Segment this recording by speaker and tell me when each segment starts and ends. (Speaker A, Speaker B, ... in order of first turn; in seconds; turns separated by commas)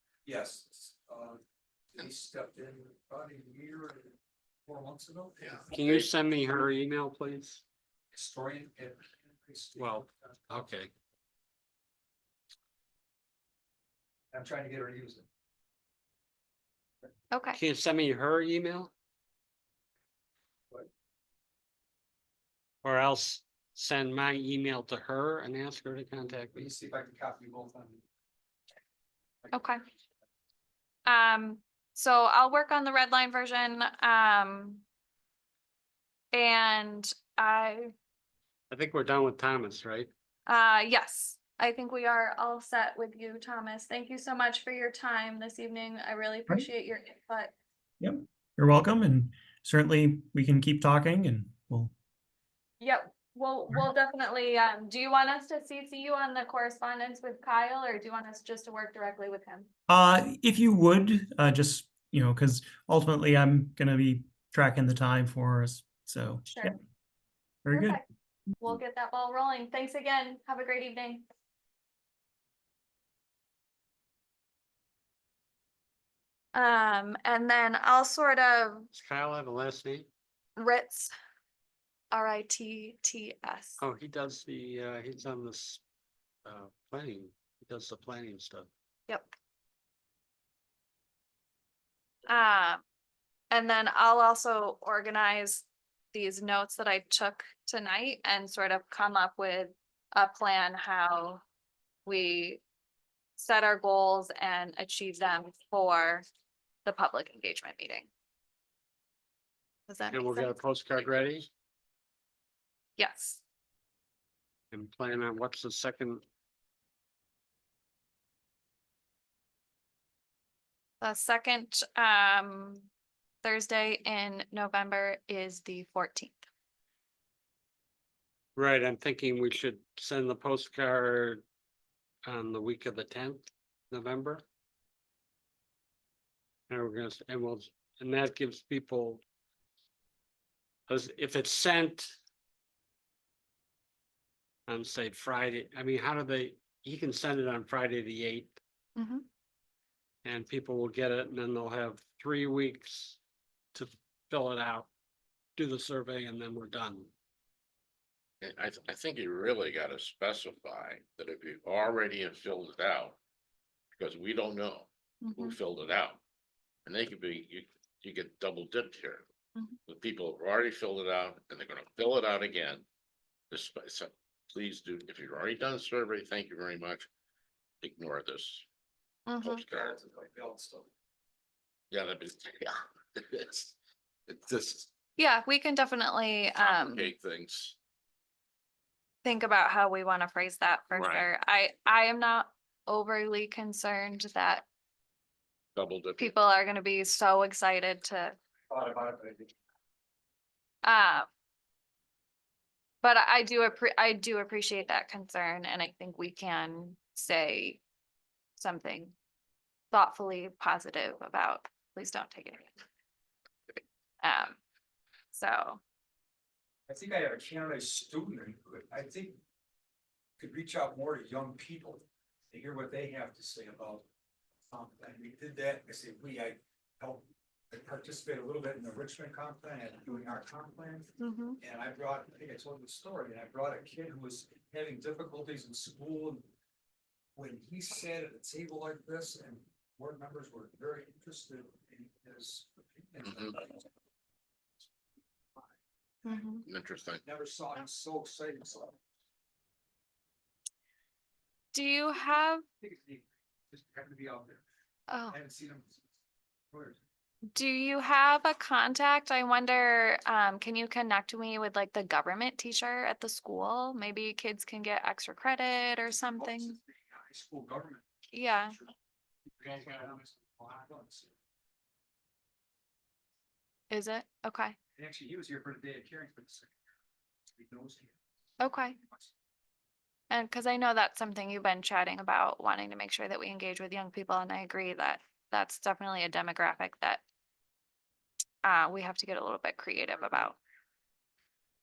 Speaker A: 0.2-1.4, Speaker A: 1.9-5.7, Speaker B: 5.4-6.1, Speaker C: 5.7-7.6, Speaker A: 8.1-10.1, Speaker C: 9.8-10.9, Speaker A: 14.3-15.2, Speaker D: 17.3-17.6, Speaker C: 17.5-18.9, Speaker C: 22.8-26.6, Speaker A: 26.5-28.0, Speaker A: 29.4-29.8, Speaker D: 29.5-29.8, Speaker D: 31.1-34.8, Speaker D: 36.3-37.9, Speaker C: 38.7-40.1, Speaker D: 40.5-47.5, Speaker E: 48.0-51.9, Speaker D: 52.8-59.7, Speaker E: 59.9-66.7, Speaker D: 66.5-66.7, Speaker E: 67.6-68.0, Speaker D: 67.7-68.0, Speaker D: 68.6-71.3, Speaker D: 76.5-78.9, Speaker C: 78.9-80.1, Speaker D: 80.5-81.1, Speaker D: 82.1-83.8, Speaker C: 83.8-85.8, Speaker C: 86.4-88.7, Speaker D: 89.1-89.3, Speaker D: 92.3-92.8, Speaker D: 93.5-101.4, Speaker D: 102.0-102.6, Speaker D: 103.4-106.2, Speaker D: 106.8-108.1, Speaker D: 109.9-110.6, Speaker C: 110.1-111.5, Speaker D: 113.0-113.4, Speaker C: 114.7-116.2, Speaker D: 121.0-122.9, Speaker D: 123.4-126.4, Speaker C: 128.6-131.4, Speaker C: 132.2-134.4, Speaker C: 136.7-139.2, Speaker C: 140.9-142.1, Speaker C: 144.7-148.6, Speaker D: 148.9-149.2, Speaker C: 150.2-153.2, Speaker C: 153.7-154.9, Speaker C: 155.6-157.1, Speaker B: 158.4-163.2, Speaker B: 163.9-166.2, Speaker D: 165.2-165.6, Speaker B: 166.8-169.3, Speaker B: 169.9-172.8, Speaker B: 173.5-177.1, Speaker B: 177.8-178.7, Speaker D: 179.2-179.6, Speaker B: 179.4-180.0, Speaker A: 179.7-180.9, Speaker B: 181.9-183.7, Speaker B: 184.3-184.9, Speaker D: 185.2-187.1, Speaker B: 186.6-187.8, Speaker D: 189.2-194.7, Speaker B: 190.9-191.3, Speaker B: 195.7-196.3, Speaker D: 196.2-198.3, Speaker A: 198.7-199.5, Speaker D: 200.8-201.3, Speaker D: 203.0-207.8, Speaker D: 208.6-209.1, Speaker D: 209.9-212.7, Speaker D: 214.2-214.6, Speaker D: 215.3-215.8, Speaker A: 216.9-219.4, Speaker A: 220.4-224.1, Speaker A: 224.7-236.4, Speaker D: 231.2-231.6, Speaker A: 237.3-243.8, Speaker B: 243.2-243.6, Speaker D: 246.2-246.6, Speaker B: 246.7-247.2, Speaker A: 247.2-249.0, Speaker D: 251.7-252.6, Speaker A: 252.8-254.6, Speaker D: 255.1-255.4, Speaker A: 255.3-256.0, Speaker A: 256.7-257.0, Speaker D: 257.5-266.8, Speaker A: 266.4-268.7, Speaker D: 268.3-268.8, Speaker A: 269.4-271.3, Speaker D: 273.9-274.8, Speaker A: 275.0-276.7, Speaker A: 277.6-278.2, Speaker D: 278.6-279.0, Speaker D: 280.3-287.2, Speaker D: 288.6-290.6